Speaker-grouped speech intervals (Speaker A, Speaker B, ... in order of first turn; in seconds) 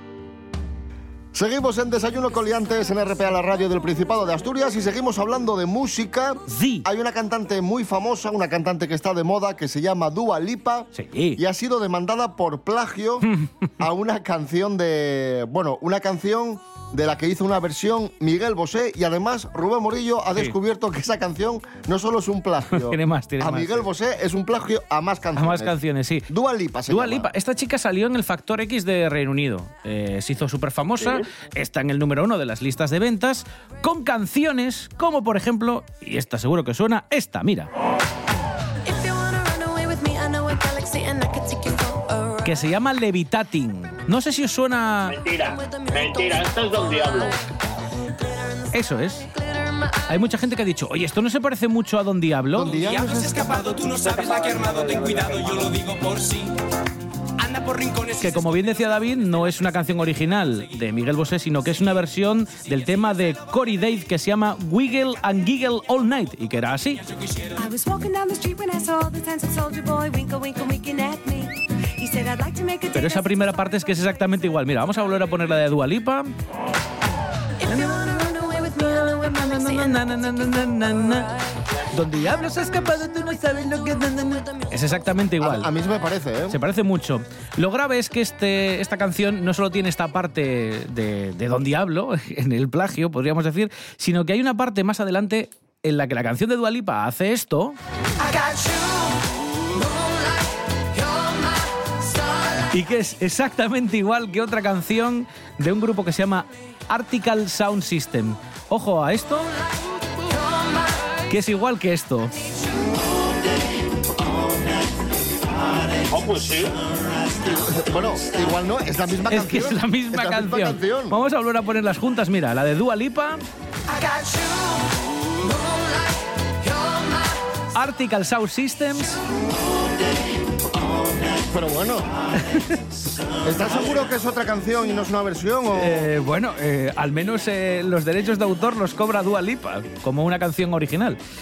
Speaker A: 1.3-13.3, 13.8-25.8, 26.3-27.3, 52.5-53.5, 85.4-86.6, 117.4-121.2, 131.5-132.1, 133.4-136.1
Speaker B: 6.5-6.8, 10.9-11.4, 22.7-23.9, 25.4-26.3, 26.9-37.7, 42.4-45.2, 48.7-49.3, 50.1-52.9, 58.2-67.0, 72.9-76.3, 77.7-78.0, 79.0-81.3, 81.9-85.7, 86.5-97.8, 102.7-109.5, 111.3-112.3, 119.3-123.4, 127.7-129.2, 132.5-132.8, 135.7-141.2
Speaker C: 31.0-31.2, 45.0-47.4, 53.7-55.8, 116.1-116.8
Speaker D: 38.8-42.7, 45.3-47.4, 48.1-50.5, 67.6-73.9, 77.6-85.2, 98.2-102.5, 110.2-110.9, 123.9-127.4
Speaker E: 52.7-56.5, 57.4-59.1